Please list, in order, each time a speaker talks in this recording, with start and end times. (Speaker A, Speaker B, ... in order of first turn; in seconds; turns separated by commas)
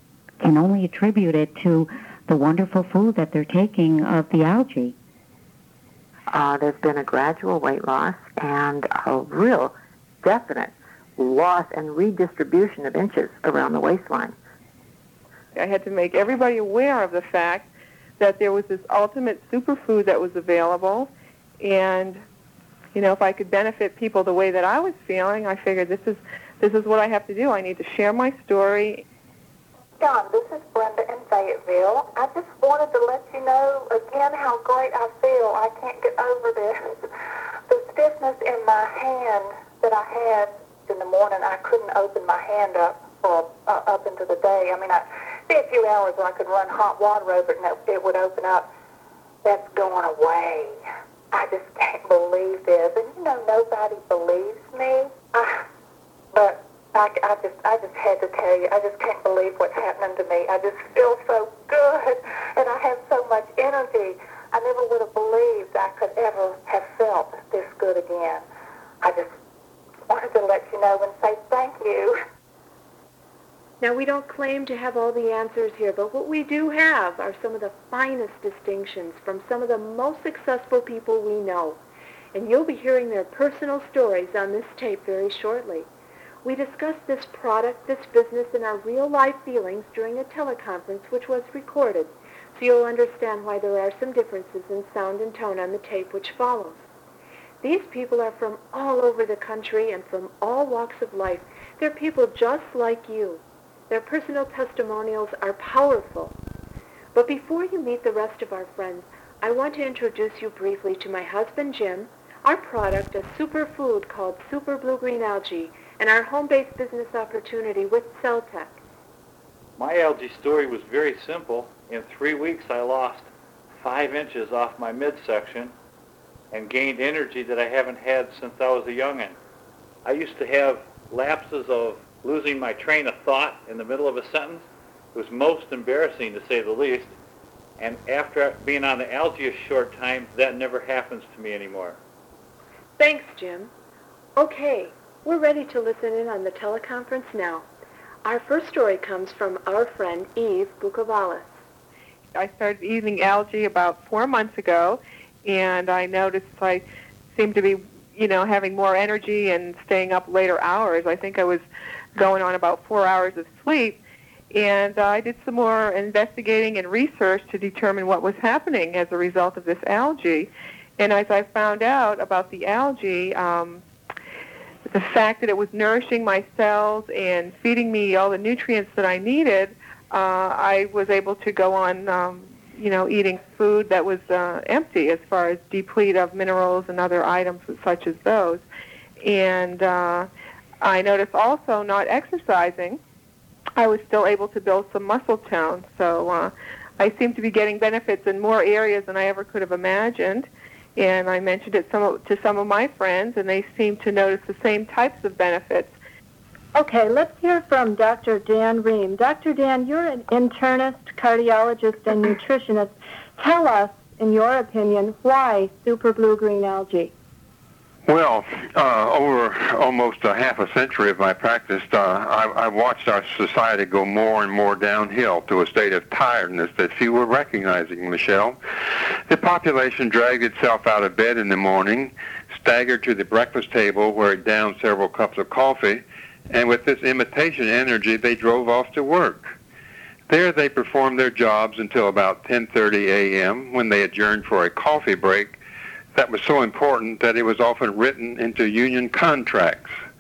Speaker A: 0.4-5.0, Speaker B: 6.3-14.4, Speaker C: 15.6-17.7, Speaker C: 18.2-22.2, Speaker C: 22.9-29.1, Speaker D: 30.0-37.0, Speaker D: 37.7-48.7, Speaker D: 49.4-50.8, Speaker D: 51.3-55.5, Speaker D: 56.3-68.4, Speaker D: 69.0-69.3, Speaker D: 70.1-72.2, Speaker E: 73.8-81.8, Speaker E: 82.3-85.9, Speaker E: 86.4-96.8, Speaker E: 97.6-106.4, Speaker E: 107.1-118.8, Speaker F: 119.8-123.3, Speaker F: 123.8-125.7, Speaker F: 126.5-129.4, Speaker F: 130.1-137.2, Speaker F: 137.8-142.0, Speaker E: 143.0-143.7, Speaker E: 144.4-147.7, Speaker E: 148.2-151.6, Speaker C: 152.4-161.6, Speaker C: 162.2-164.0, Speaker C: 164.5-173.8, Speaker C: 174.9-188.6, Speaker C: 189.2-190.3, Speaker C: 190.8-193.0, Speaker C: 193.8-206.0, Speaker G: 206.8-217.1, Speaker H: 218.1-239.6, Speaker H: 240.3-245.6, Speaker H: 246.1-249.9